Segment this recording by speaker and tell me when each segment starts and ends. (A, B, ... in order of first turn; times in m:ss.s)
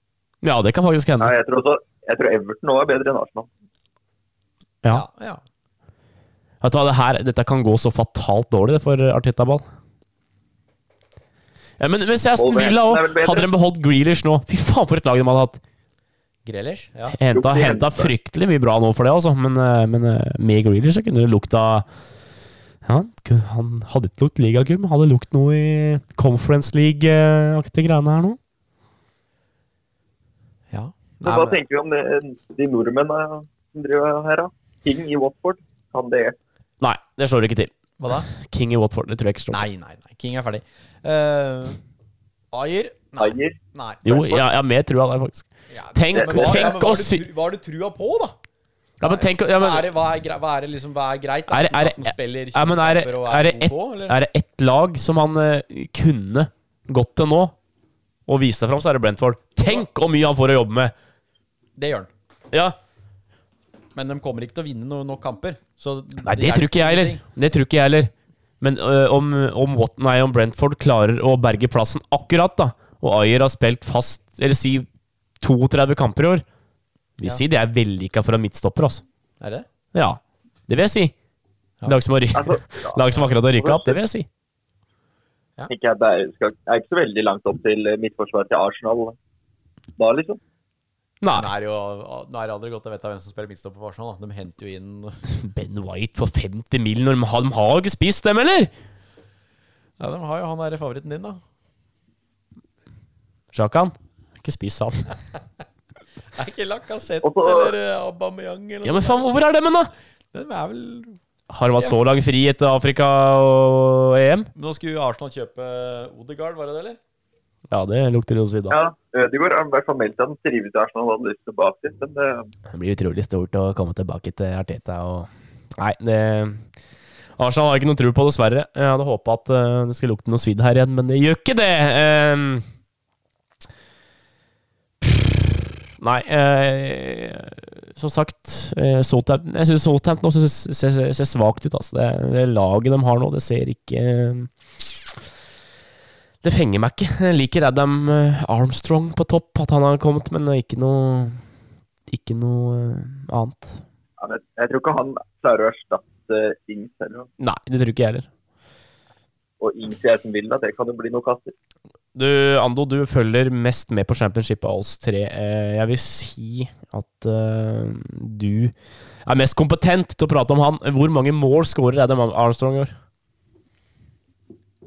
0:00.4-0:01.3 A
0:01.2-0:03.5 B
0:04.9-0:05.4 C
0:06.6-0:09.6 A
0:11.8-0:15.6 A
0:12.4-0:13.5 B
0:16.4-0:17.2 C
0:17.1-0:21.8 A
0:17.3-0:18.1 B
0:22.8-0:28.4 A
0:30.7-0:31.6 C
0:31.2-0:36.4 B
0:36.8-0:37.7 A
0:38.0-0:38.3 C
0:38.3-0:39.7 A
0:39.5-0:41.8 C
0:42.5-0:44.4 C
0:43.2-0:43.6 B
0:44.0-0:47.3 A
0:45.7-0:48.4 C
0:46.1-0:46.7 B
0:49.0-0:49.9 A
0:49.0-0:54.2 C
0:51.5-0:57.6 A
0:58.3-1:00.9 A
1:01.8-1:02.1 C
1:02.5-1:02.8 A
1:04.0-1:07.2 C
1:06.2-1:14.9 A
1:15.4-1:16.4 A
1:17.2-1:19.0 A
1:19.4-1:19.7 C
1:19.9-1:21.1 A
1:21.9-1:24.3 A
1:22.3-1:24.0 B
1:25.7-1:29.2 B
1:30.0-1:30.4 B
1:31.2-1:31.5 A
1:31.3-1:35.2 C
1:35.3-1:38.7 A
1:40.0-1:41.4 C
1:43.5-1:45.2 A
1:46.3-1:49.3 C
1:47.2-1:47.7 B
1:48.8-1:49.9 A
1:50.3-1:51.2 C
1:51.5-1:54.5 A
1:54.6-1:57.0 C
1:57.7-1:58.8 A
1:58.7-2:02.5 B
2:02.7-2:06.6 A
2:07.4-2:12.6 A
2:15.0-2:25.2 A
2:26.4-2:31.4 A
2:32.1-2:33.8 A
2:34.2-2:37.3 B
2:37.4-2:38.3 A
2:39.6-2:41.5 B
2:42.1-2:52.9 A